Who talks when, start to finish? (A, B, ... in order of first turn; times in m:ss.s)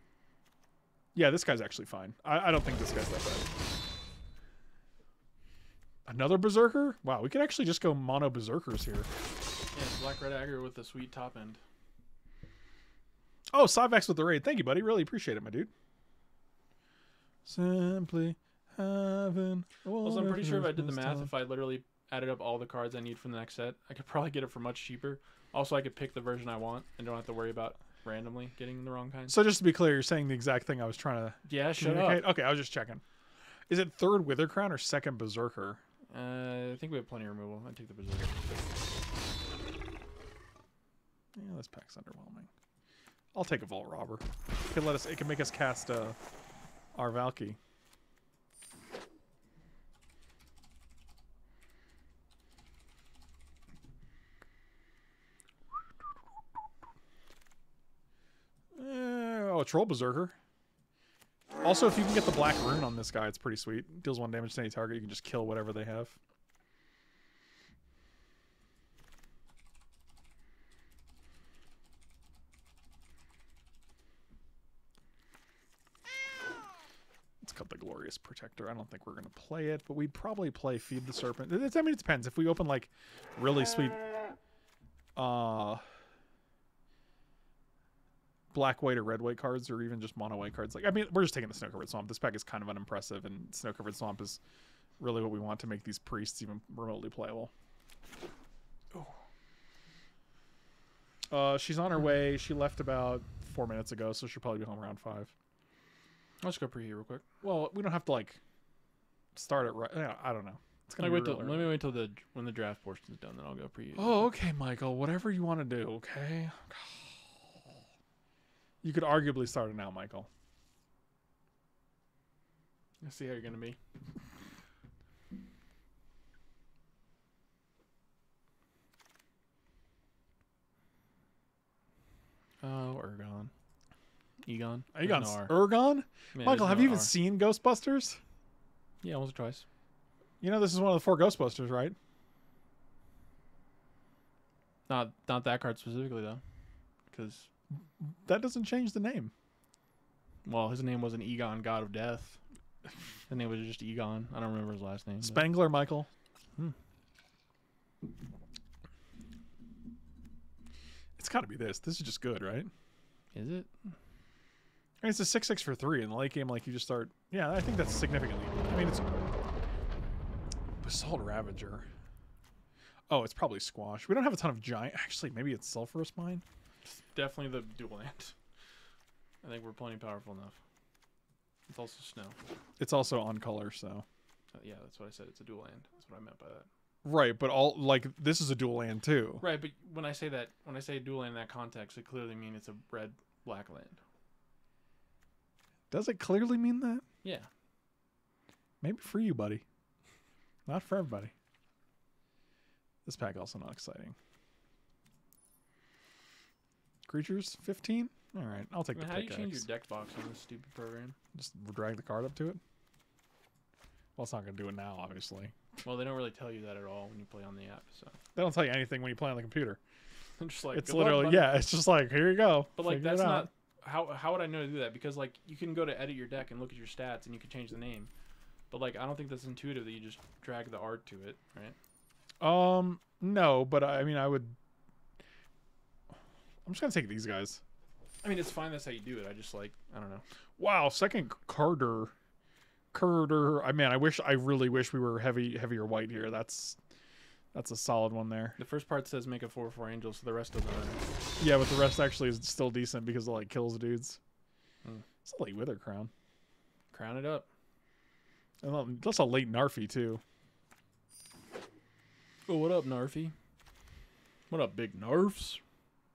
0:01.1-0:03.5 A
0:06.1-0:09.1 A
0:09.7-0:11.6 B
0:13.5-0:15.7 A
0:17.4-0:21.3 A
0:20.0-0:29.4 B
0:29.3-0:33.0 A
0:31.5-0:32.3 B
0:33.7-0:35.8 A
0:36.1-0:38.5 B
0:41.4-0:42.5 A
0:43.3-0:46.2 A
0:47.0-0:47.6 A
0:58.8-1:00.4 A
1:01.6-1:06.2 A
1:17.4-1:24.1 A
1:25.2-1:25.8 A
1:28.5-1:34.4 A
1:35.0-1:37.5 A
1:41.3-1:45.3 A
1:46.4-1:47.2 B
1:47.4-1:48.4 A
1:49.4-1:51.8 A
1:51.0-1:54.2 B
1:54.0-1:57.7 A
1:58.8-2:00.3 A
2:03.0-2:03.8 B
2:12.6-2:13.5 B
2:14.4-2:15.6 B
2:14.9-2:18.2 A
2:16.3-2:17.1 B
2:19.0-2:19.6 B
2:20.4-2:22.0 A
2:24.9-2:26.4 B
2:27.1-2:27.5 B
2:28.0-2:29.3 A
2:30.4-2:32.4 B
2:33.3-2:35.6 B
2:35.2-2:36.1 A
2:41.2-2:42.7 A
2:43.3-2:43.9 B
2:45.0-2:49.3 A
2:50.8-2:51.9 A
2:53.1-2:56.4 A
2:57.1-2:58.3 B
2:59.4-3:00.6 B
3:01.7-3:02.4 B
3:02.8-3:04.0 A
3:04.5-3:06.7 B
3:07.0-3:09.5 A
3:09.4-3:14.0 B
3:15.9-3:17.0 A
3:17.2-3:17.5 B
3:18.8-3:19.6 A
3:20.7-3:21.3 A
3:23.0-3:24.2 A
3:27.1-3:29.7 A
3:28.9-3:31.2 B
3:31.3-3:32.6 A
3:34.2-3:35.5 A
3:35.8-3:38.2 B
3:38.4-3:39.8 A
3:40.4-3:41.6 B
3:40.7-3:43.5 A
3:42.8-3:48.1 B
3:48.7-3:51.8 B
3:52.4-3:54.6 A
3:56.6-3:57.6 A
3:58.2-4:00.2 B
4:00.6-4:02.1 A
4:02.9-4:06.8 A
4:07.5-4:08.6 A
4:08.6-4:11.1 B
4:11.4-4:14.2 A
4:15.2-4:16.1 A
4:16.9-4:17.5 B
4:18.6-4:20.2 A
4:22.5-4:23.3 B
4:24.5-4:25.6 B